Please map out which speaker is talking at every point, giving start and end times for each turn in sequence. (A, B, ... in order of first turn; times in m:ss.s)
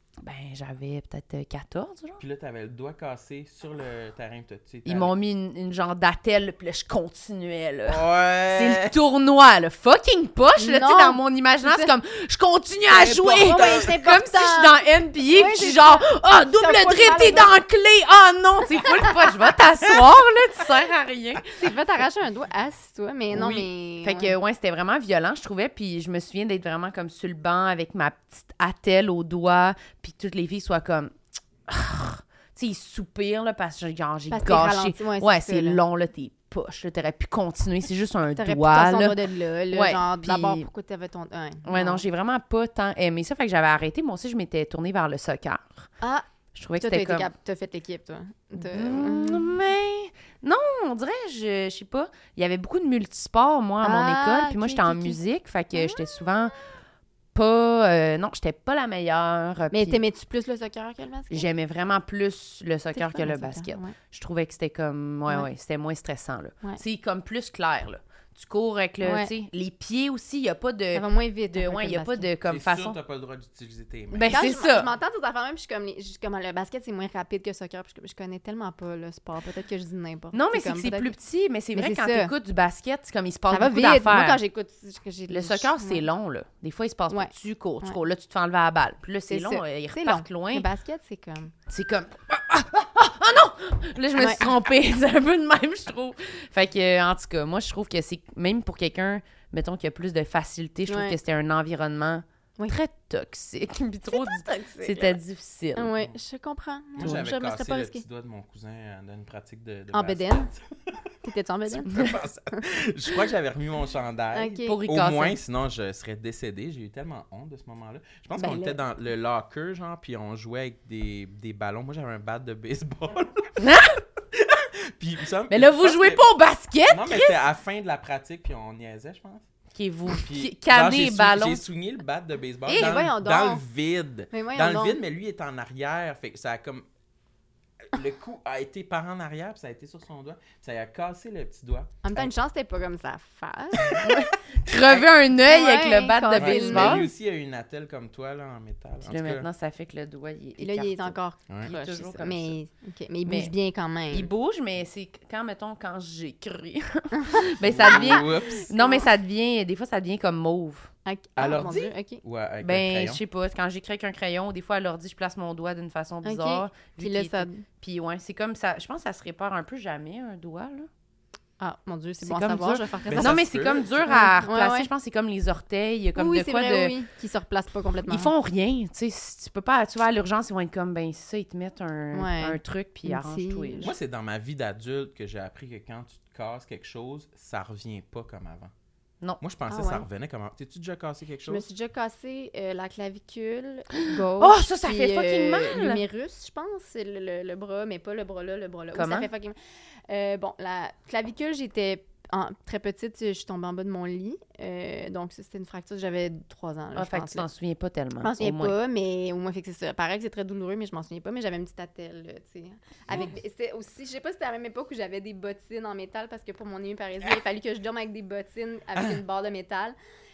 0:00.2-0:02.2 A
0:02.2-0:05.1 B
0:04.9-0:21.5 A
0:07.9-0:08.9 B
0:10.6-0:11.9 C
0:12.9-0:13.9 B
0:13.3-0:17.5 C
0:21.6-0:24.3 C
0:23.3-0:31.1 A
0:31.7-0:39.2 A
0:34.3-0:35.8 C
0:38.4-0:42.0 C
0:39.7-0:40.7 A
0:41.7-0:45.9 A
0:46.6-0:47.3 A
0:46.8-0:49.6 C
0:48.6-0:56.6 A
0:53.8-0:55.2 C
0:55.7-0:56.3 C
0:57.3-1:00.0 A
0:59.7-1:01.5 C
1:01.3-1:13.0 A
1:03.0-1:04.0 C
1:09.0-1:09.3 C
1:10.9-1:12.3 C
1:12.5-1:14.4 B
1:14.1-1:14.9 A
1:14.2-1:21.1 C
1:20.3-1:24.4 A
1:21.7-1:22.3 C
1:23.5-1:26.1 C
1:25.3-1:30.7 A
1:27.1-1:28.0 C
1:29.3-1:31.5 C
1:31.7-1:45.9 A
1:34.2-1:34.4 C
1:40.9-1:41.2 C
1:44.1-1:45.2 C
1:45.8-1:48.0 C
1:47.0-1:51.1 B
1:47.0-1:47.3 A
1:49.9-1:50.5 C
1:51.2-1:52.1 C
1:51.7-2:03.6 B
1:54.3-1:54.8 C
1:54.7-1:55.4 A
1:58.4-1:58.8 C
2:03.6-2:04.0 A
2:04.3-2:06.2 B
2:05.5-2:07.4 A
2:06.9-2:09.5 B
2:09.7-2:11.6 A
2:10.1-2:16.8 B
2:12.7-2:13.0 A
2:12.7-2:13.6 C
2:14.3-2:15.0 C
2:17.9-2:22.3 B
2:22.0-2:24.0 C
2:23.9-2:25.1 B
2:24.0-2:27.1 A
2:25.4-2:27.1 C
2:26.4-2:29.5 B
2:29.0-2:32.6 A
2:30.6-2:34.3 C
2:33.3-2:33.5 A
2:34.1-2:40.9 A
2:37.1-2:39.1 C
2:37.6-2:38.7 B
2:41.0-2:42.2 C
2:41.4-2:43.2 B
2:42.6-2:50.9 A
2:46.2-2:47.7 C
2:51.6-2:53.5 C
2:52.2-2:56.9 A
2:53.1-2:54.1 B
2:54.0-2:54.9 C
2:56.2-2:58.3 C
2:58.1-3:03.9 A
3:02.1-3:03.9 C
3:03.8-3:08.7 B
3:09.4-3:11.7 B
3:09.7-3:10.1 C
3:11.5-3:19.6 C
3:14.4-3:16.0 A
3:18.9-3:19.3 A
3:20.1-3:27.5 C
3:27.0-3:28.8 A
3:28.2-3:40.0 C